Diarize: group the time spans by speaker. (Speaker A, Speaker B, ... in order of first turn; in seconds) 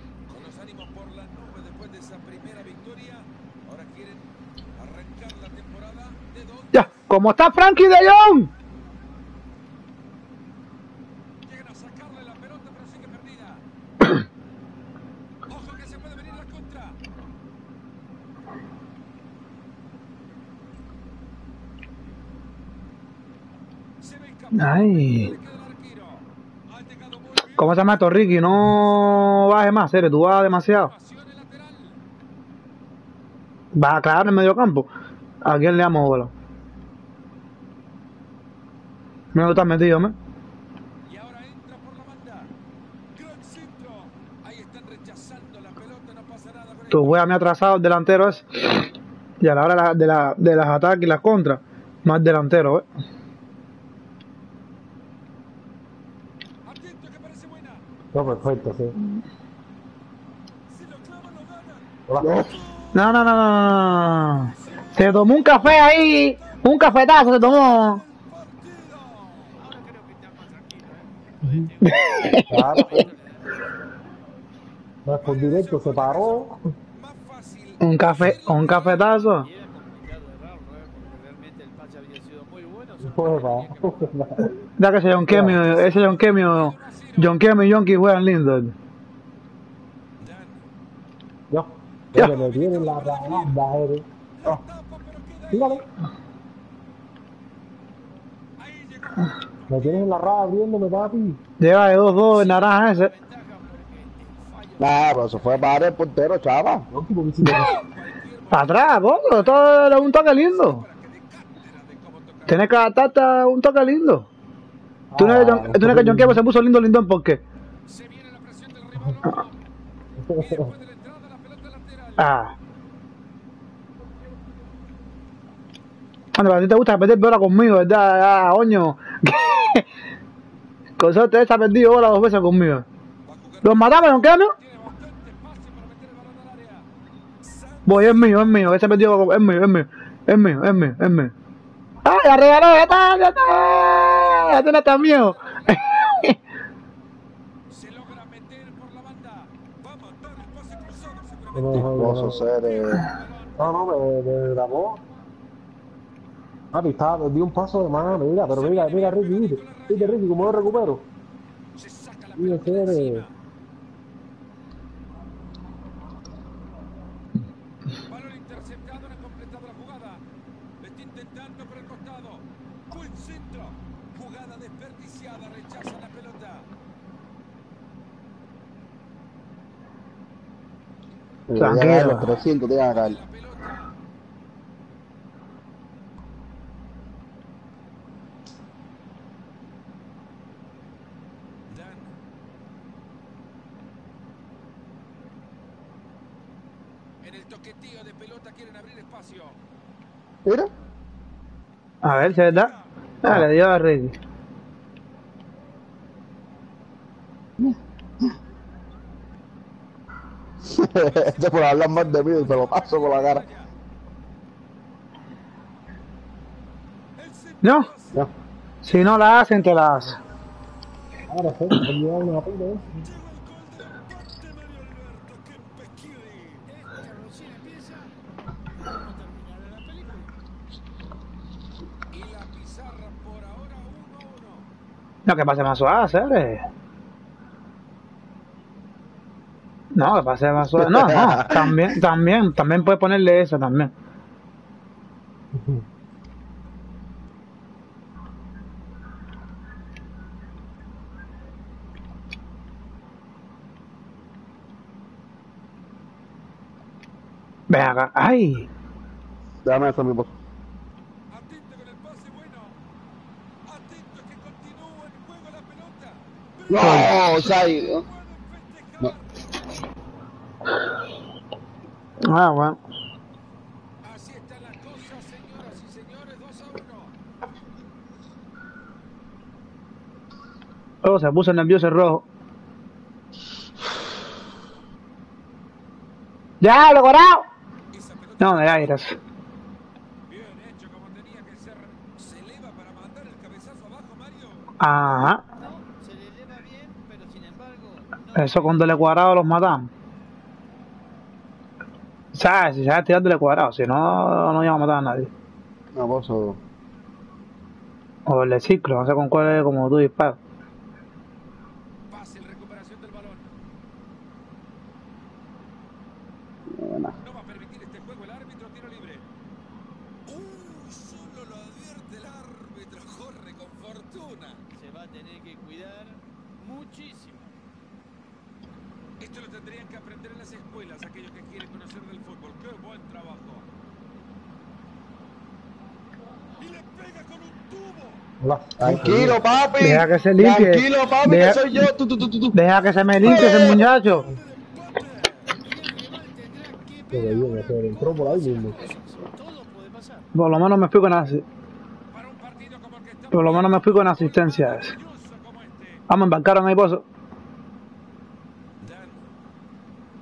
Speaker A: 0.3-6.9, 11.4-13.6, 15.5-17.0, 24.0-29.4, 30.6-32.0, 41.0-42.5, 43.1-47.2, 56.6-57.8, 60.7-61.9, 62.4-69.5, 75.2-79.2, 85.3-87.5, 90.2-90.6, 92.1-93.6, 94.4-95.9, 98.6-100.2, 104.2-105.8, 107.5-112.9, 117.8-119.6, 120.2-122.3, 133.2-136.9, 137.4-138.9, 144.3-146.3, 147.7-153.7, 158.4-161.0, 161.7-163.3, 168.1-170.2, 170.8-176.7, 182.2-183.9, 191.7-192.1, 197.2-199.6, 202.0-202.9, 211.0-213.7, 217.2-218.2, 220.8-221.3, 223.0-226.7, 232.1-234.7, 242.1-243.1, 261.3-262.8, 263.6-269.3, 274.0-277.1, 287.9-289.0, 290.3-294.7, 312.1-313.5, 317.2-319.2, 320.2-324.6, 329.2-333.6, 336.6-338.2, 343.2-345.6, 352.1-356.0, 358.8-359.3
Speaker B: 6.7-8.5, 24.5-25.3, 27.6-30.9, 33.7-34.9, 35.4-36.3, 39.3-40.1, 46.9-48.9, 49.4-52.8, 62.9-68.0, 71.8-73.0, 77.8-79.5, 84.8-88.7, 101.6-103.1, 108.5-110.8, 112.5-114.3, 115.2-117.4, 122.2-122.5, 126.3-129.9, 131.0-132.8, 133.6-134.5, 137.8-141.3, 142.0-146.4, 181.6-182.3, 202.0-204.2, 217.6-217.9, 218.8-220.2, 235.2-236.6, 239.9-243.9, 257.7-258.7, 266.8-267.1, 272.2-272.8, 281.0-282.2, 286.6-287.5, 288.4-289.2, 294.8-295.4, 298.3-299.9, 302.3-305.3, 308.3-310.4, 339.8-341.6, 342.5-344.3, 350.3-351.4, 353.3-354.9, 356.1-357.0
Speaker C: 58.1-59.0, 62.0-62.4, 72.5-73.1, 75.0-76.7, 83.0-84.5, 85.3-85.6, 91.5-94.6, 95.5-95.9, 99.7-101.4, 106.9-107.8, 115.1-116.4, 120.2-120.7, 151.5-152.5, 153.6-155.0, 156.7-161.1, 162.4-163.2, 181.8-182.2, 221.3-223.1, 245.6-245.8, 338.4-339.4, 347.1-348.8
Speaker D: 62.2-62.5, 104.8-106.9, 151.7-153.1, 181.5-183.2, 200.4-200.7, 210.7-213.4, 240.8-241.9, 259.6-260.3, 266.7-268.0, 305.9-306.6, 316.7-317.1, 338.8-342.6, 343.2-343.8
Speaker E: 69.5-74.0, 79.4-84.2, 102.2-104.2, 226.7-228.1, 228.7-230.3, 295.4-299.1, 324.7-327.6, 345.6-350.3